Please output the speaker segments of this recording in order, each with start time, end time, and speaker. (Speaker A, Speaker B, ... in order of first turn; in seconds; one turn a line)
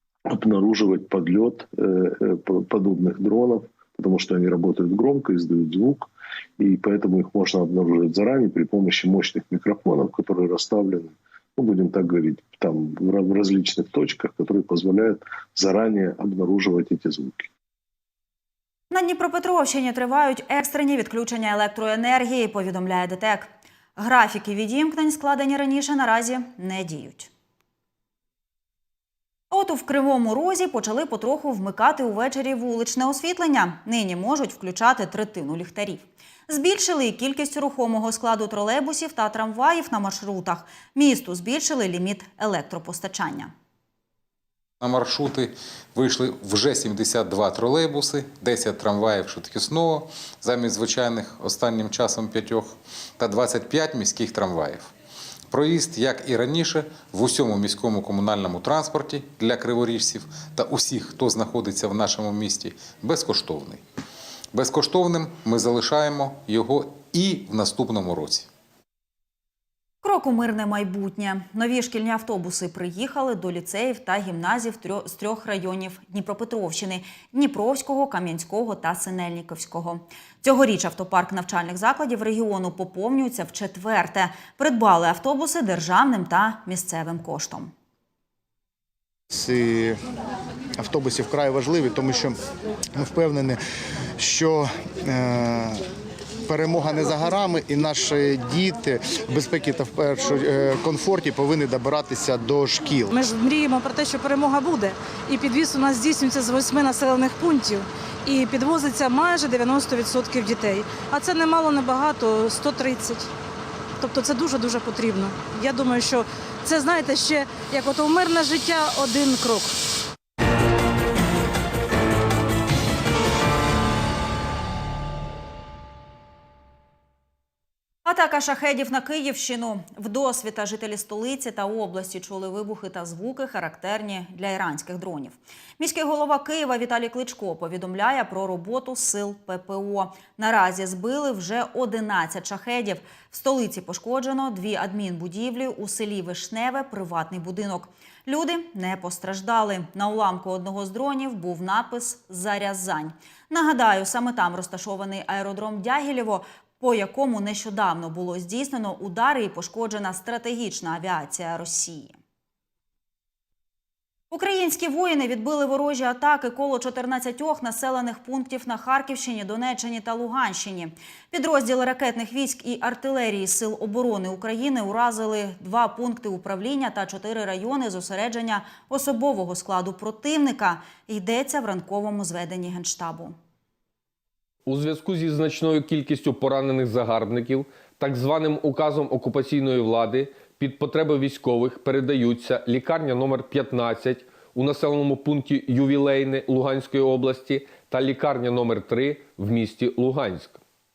Speaker A: 0.3-17.5
Speaker B: 18.9-27.3
Speaker B: 29.5-43.5
Speaker C: 44.8-54.9
Speaker C: 55.5-63.8
Speaker C: 64.5-68.5
Speaker B: 70.0-87.7
Speaker D: 89.3-90.0
Speaker D: 90.8-92.4
Speaker D: 93.0-93.6
Speaker D: 94.2-95.8
Speaker D: 96.5-103.3
Speaker E: 103.1-113.3
Speaker E: 114.0-119.7
Speaker B: 128.0-162.2
Speaker B: 164.3-183.3
Speaker F: 184.7-200.6